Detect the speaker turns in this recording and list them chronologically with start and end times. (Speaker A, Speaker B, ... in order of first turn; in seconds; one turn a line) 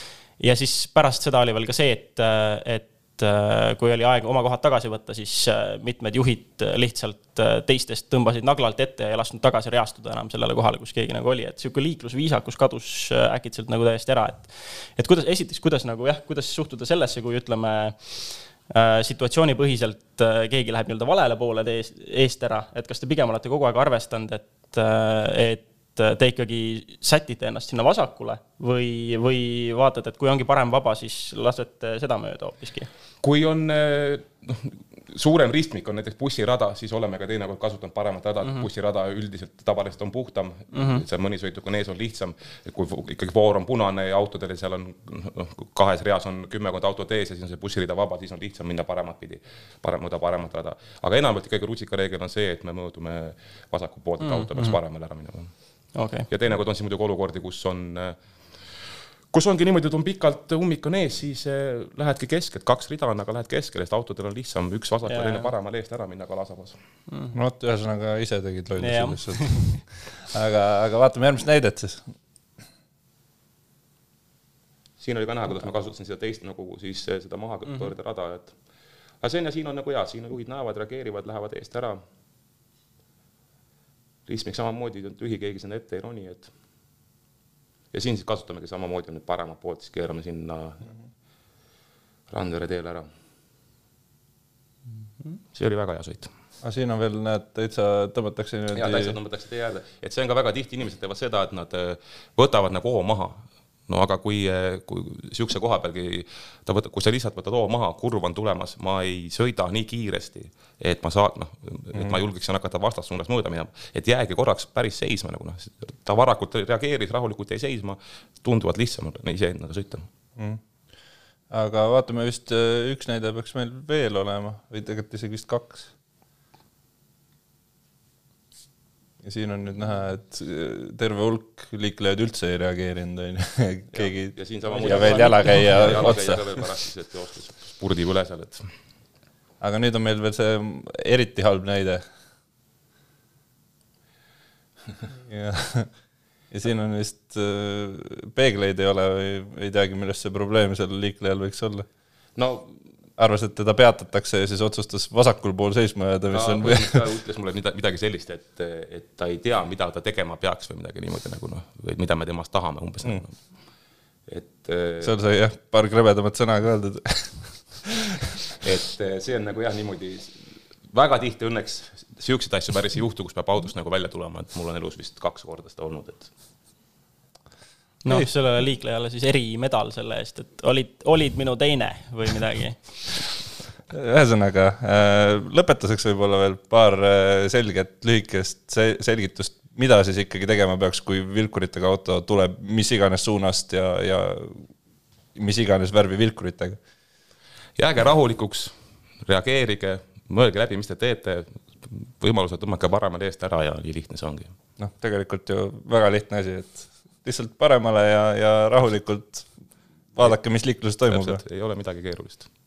Speaker A: 0.4-18.1
Speaker A: 18.7-32.9
Speaker B: 33.2-55.5
Speaker A: 40.7-41.0
Speaker A: 54.2-54.8
Speaker A: 55.9-56.3
Speaker B: 56.3-58.7
Speaker B: 59.3-66.8
Speaker A: 65.1-65.5
Speaker A: 67.1-67.3
Speaker C: 67.3-72.1
Speaker A: 68.8-69.8
Speaker B: 75.0-78.6
Speaker A: 77.7-77.9
Speaker B: 79.2-82.0
Speaker B: 84.3-86.5
Speaker B: 87.9-90.9
Speaker B: 92.3-93.1
Speaker B: 95.4-96.3
Speaker C: 96.6-99.1
Speaker B: 98.7-120.1
Speaker C: 121.5-125.9
Speaker C: 129.2-136.4
Speaker B: 133.9-138.7
Speaker A: 134.7-135.9
Speaker C: 139.6-142.0
Speaker C: 145.2-145.9
Speaker C: 146.5-151.9
Speaker B: 152.4-152.7
Speaker C: 153.2-157.0
Speaker B: 156.3-163.5
Speaker B: 164.3-165.1
Speaker C: 165.0-168.3
Speaker B: 168.6-176.3
Speaker A: 178.0-182.9
Speaker C: 183.9-194.7
Speaker C: 195.3-196.8
Speaker B: 197.8-198.7
Speaker B: 199.2-204.5
Speaker C: 204.8-209.5
Speaker C: 210.1-211.4
Speaker B: 211.1-212.5